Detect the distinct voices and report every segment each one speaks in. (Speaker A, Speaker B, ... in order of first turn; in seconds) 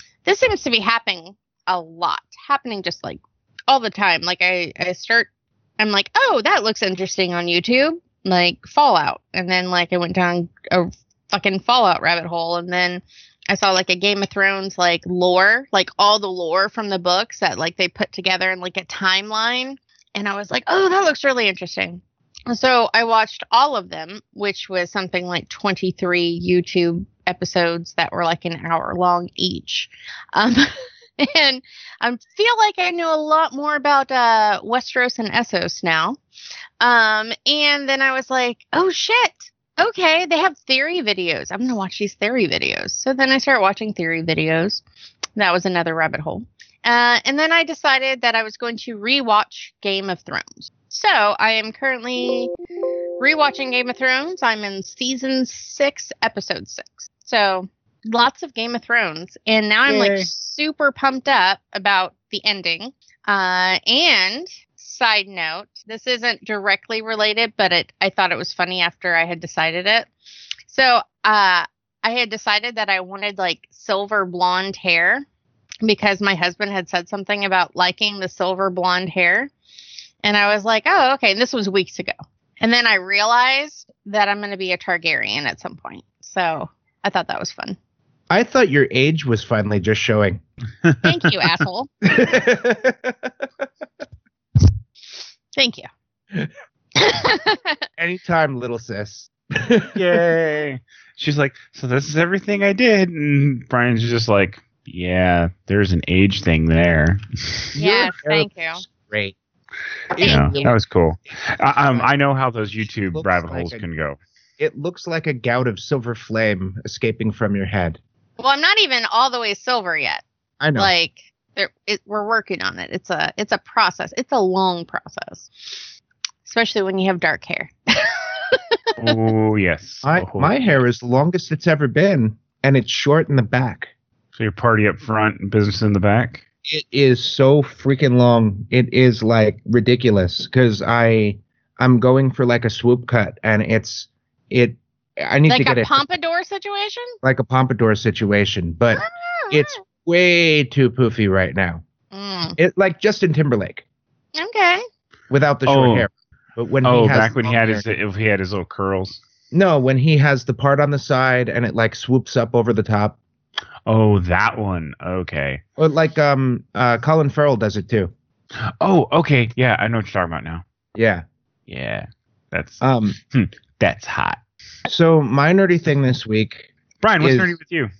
Speaker A: 0.2-36.2, 36.8-44.8, 45.4-52.5, 53.2-70.1, 70.7-75.2, 75.8-79.5, 80.2-87.8, 91.0-91.9, 95.5-95.9, 97.0-97.8, 107.8-108.8, 110.2-110.7, 118.4-120.2, 120.7-125.9, 126.4-129.3, 145.5-147.2, 148.9-149.8, 152.1-152.6, 154.3-154.8
Speaker B: 59.9-60.3, 90.8-91.6, 99.9-107.7, 110.2-114.2, 129.0-130.6, 134.3-136.4, 155.7-156.1, 156.8-159.2, 163.8-165.6, 168.7-170.6, 171.7-174.4, 177.0-177.9
Speaker C: 88.3-90.4, 92.1-93.3, 98.0-99.9, 107.8-109.3, 110.1-110.8, 111.8-112.1, 113.1-113.8, 114.6-118.0, 120.6-120.9, 130.0-133.9, 136.7-146.0, 147.2-151.8, 152.6-153.8, 155.3-157.8, 159.5-163.2, 165.8-168.1, 170.9-171.2, 172.8-173.2, 174.8-177.6